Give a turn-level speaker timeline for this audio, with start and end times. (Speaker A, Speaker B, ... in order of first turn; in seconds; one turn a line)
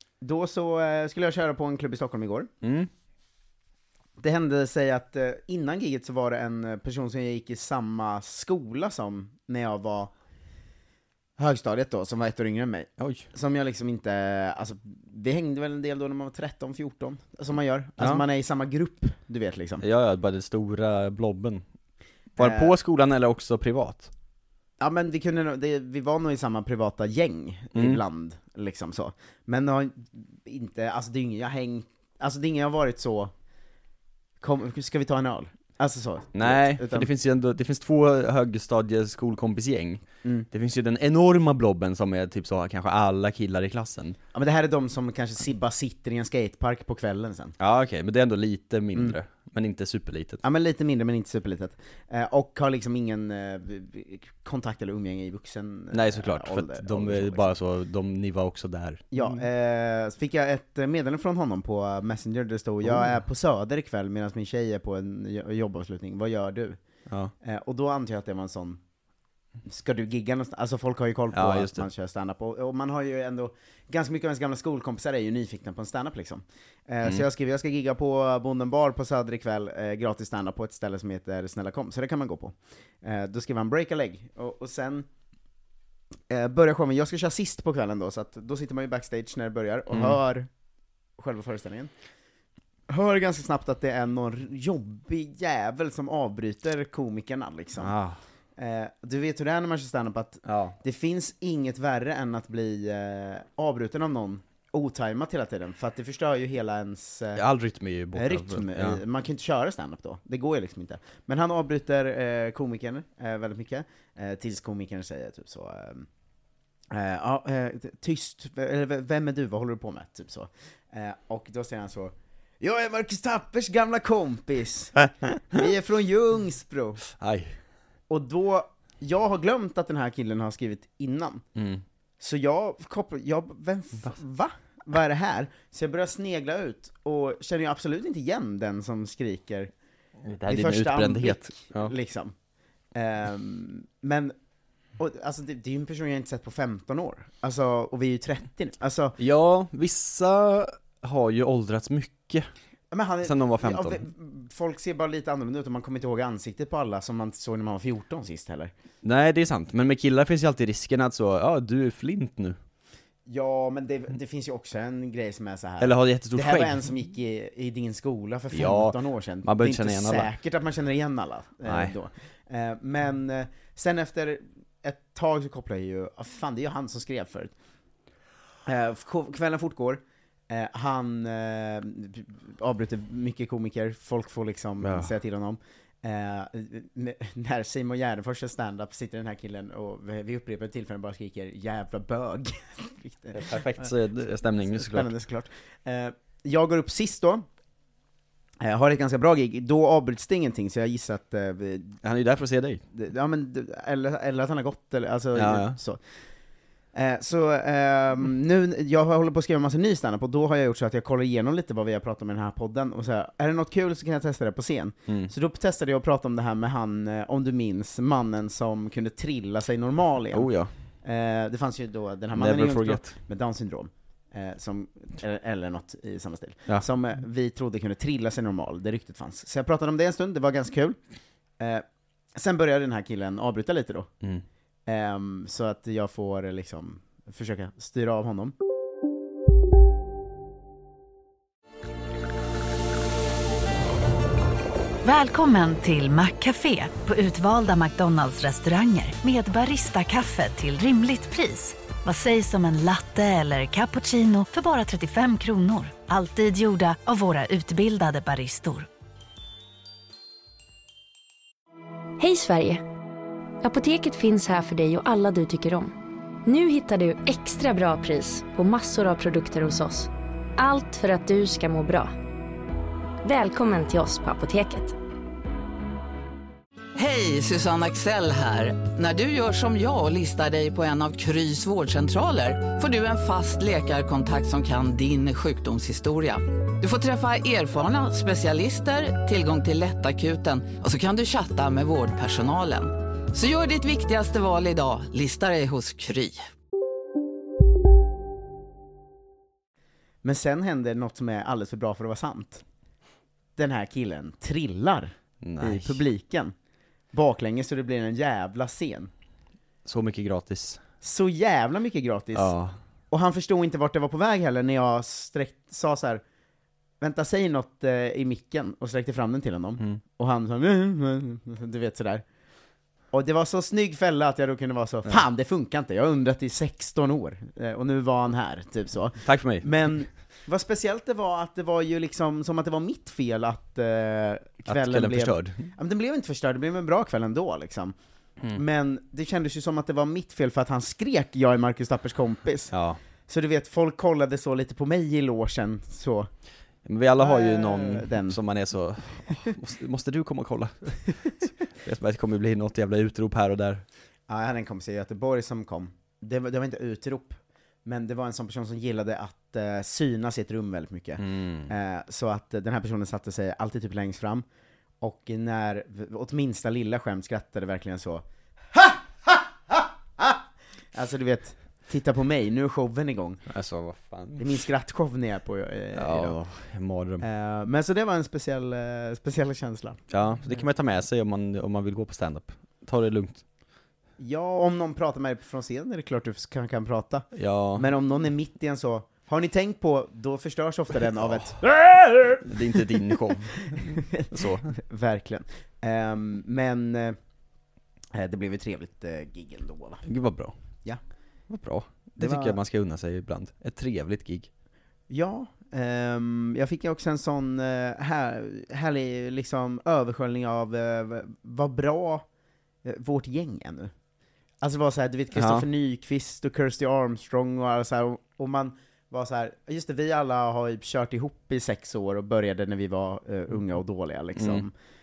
Speaker A: 0.2-2.5
Speaker B: 2.6-2.9
Speaker A: 4.2-10.1
Speaker A: 11.4-19.8
Speaker B: 13.0-13.2
Speaker B: 19.8-21.6
Speaker B: 22.4-24.1
Speaker A: 22.4-22.7
Speaker A: 24.8-33.3
Speaker B: 27.7-28.0
Speaker A: 34.4-37.1
Speaker B: 36.3-44.2
Speaker A: 44.3-47.5
Speaker B: 47.6-50.4
Speaker A: 50.4-57.5
Speaker B: 55.9-59.5
Speaker A: 59.1-66.8
Speaker B: 62.8-63.1
Speaker B: 67.1-67.3
Speaker A: 67.4-68.8
Speaker A: 69.7-85.1
Speaker B: 71.3-71.9
Speaker A: 86.3-90.5
Speaker B: 89.9-90.2
Speaker A: 91.2-91.9
Speaker A: 92.9-97.9
Speaker B: 97.8-98.2
Speaker A: 98.6-107.4
Speaker B: 100.5-100.8
Speaker B: 107.4-109.0
Speaker A: 108.1-116.1
Speaker A: 116.9-127.0
Speaker B: 127.2-127.6
Speaker A: 128.1-131.4
Speaker B: 131.6-131.8
Speaker A: 132.2-139.7
Speaker B: 140.2-141.9
Speaker A: 140.5-142.3
Speaker A: 142.9-144.3
Speaker A: 145.0-149.2
Speaker B: 149.2-152.5
Speaker A: 152.9-158.7
Speaker B: 153.2-154.0
Speaker B: 159.0-162.6
Speaker A: 163.3-177.5
Speaker B: 165.8-166.8
Speaker B: 168.5-170.3
Speaker B: 171.7-171.9
Speaker A: 178.7-197.4
Speaker B: 184.8-185.1
Speaker B: 193.3-195.1
Speaker A: 198.6-202.0
Speaker B: 202.0-202.8
Speaker A: 202.9-206.0
Speaker B: 205.3-205.8
Speaker A: 206.9-220.5
Speaker B: 220.3-220.7
Speaker A: 221.0-231.0
Speaker B: 222.3-223.1
Speaker A: 231.6-231.8
Speaker A: 232.3-234.1
Speaker A: 234.9-238.6
Speaker C: 245.0-258.9
Speaker D: 262.2-262.8
Speaker D: 263.6-265.9
Speaker D: 266.4-272.1
Speaker D: 273.2-275.0
Speaker E: 277.0-296.5
Speaker A: 300.2-302.6
Speaker A: 303.6-306.5
Speaker B: 305.4-306.0
Speaker A: 307.1-309.1
Speaker B: 309.9-310.8
Speaker A: 311.0-312.6
Speaker B: 312.4-312.8
Speaker A: 313.1-316.2
Speaker A: 317.0-322.2
Speaker A: 323.1-338.0
Speaker B: 329.2-329.8
Speaker B: 334.7-335.7
Speaker A: 338.5-342.7
Speaker B: 342.7-343.0
Speaker A: 343.3-346.3
Speaker B: 346.9-353.8
Speaker A: 347.2-348.4
Speaker A: 354.3-364.4
Speaker B: 361.2-361.7
Speaker A: 365.0-370.4
Speaker A: 370.9-373.4
Speaker B: 373.5-374.5
Speaker A: 374.4-376.4
Speaker B: 375.9-377.2
Speaker A: 377.2-380.6
Speaker B: 380.1-383.4
Speaker A: 384.2-392.4
Speaker B: 387.3-387.9
Speaker B: 391.2-391.5
Speaker B: 392.4-394.7
Speaker A: 394.2-397.2
Speaker A: 398.1-400.1
Speaker B: 400.1-400.5
Speaker B: 401.5-404.5
Speaker A: 402.2-402.6
Speaker A: 405.1-412.3
Speaker A: 412.8-413.9
Speaker A: 414.6-424.7
Speaker B: 415.3-415.7
Speaker B: 424.4-424.7